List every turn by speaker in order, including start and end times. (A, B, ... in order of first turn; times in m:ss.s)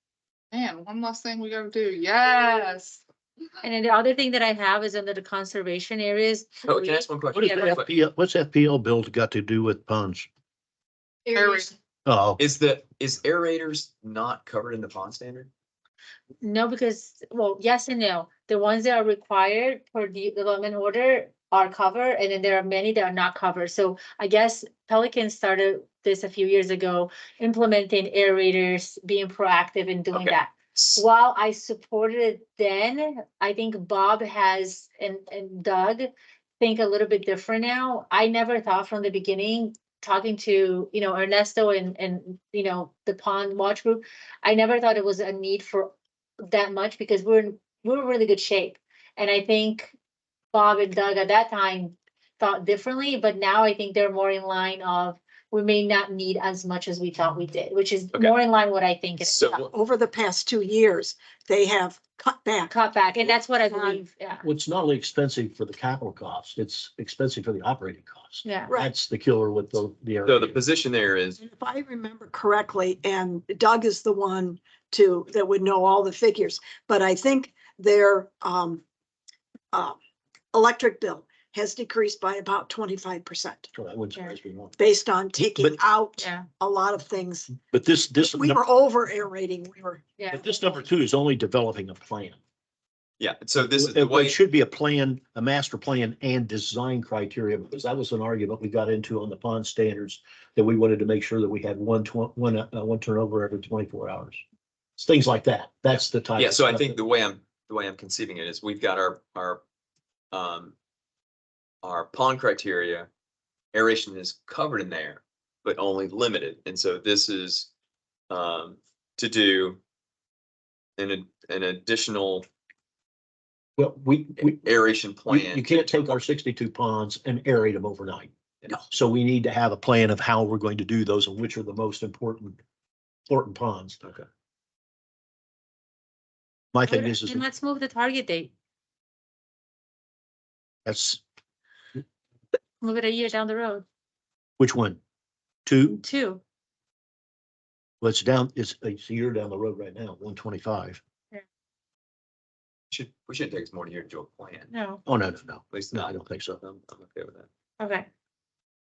0:00.5-0:03.0 A
0:03.6-0:07.8 B
0:06.6-0:07.9 C
0:07.3-0:10.3 D
0:11.3-0:11.6 B
0:11.3-0:11.7 A
0:12.0-0:12.4 D
0:12.4-0:15.5 C
0:16.4-0:45.9 B
0:30.1-0:31.0 C
0:46.5-0:49.9 B
0:50.5-0:59.5 B
0:59.2-0:59.7 C
0:59.5-1:02.7 E
1:02.7-1:04.4 B
1:03.7-1:04.0 E
1:04.4-1:10.6 D
1:08.4-1:08.7 B
1:10.2-1:11.4 C
1:11.4-1:18.8 E
1:20.5-1:23.7 E
1:23.7-1:24.8 D
1:24.8-1:27.5 E
1:26.2-1:26.5 B
1:27.7-1:28.6 D
1:28.2-1:30.0 E
1:30.2-1:30.5 B
1:30.3-1:32.4 D
1:33.2-1:34.4 C
1:33.7-1:44.4 D
1:45.0-1:47.0 D
1:46.3-1:49.6 C
1:50.3-1:50.7 C
1:51.8-1:53.1 C
1:53.7-1:57.7 C
1:58.3-1:59.8 C
2:01.0-2:02.5 C
2:03.8-2:04.6 D
2:04.4-2:06.0 C
2:05.3-2:08.3 D
2:08.9-2:12.6 D
2:13.3-2:14.2 D
2:16.7-2:17.4 D
2:16.8-2:18.5 B
2:20.8-2:21.2 D
2:22.8-2:23.8 B
2:24.6-2:25.0 D
2:25.6-2:26.0 D
2:26.0-2:26.4 B
2:28.0-2:31.0 D
2:32.9-2:34.7 C
2:34.7-2:35.0 B
2:35.0-2:36.6 D
2:35.7-2:37.5 C
2:37.8-2:38.1 B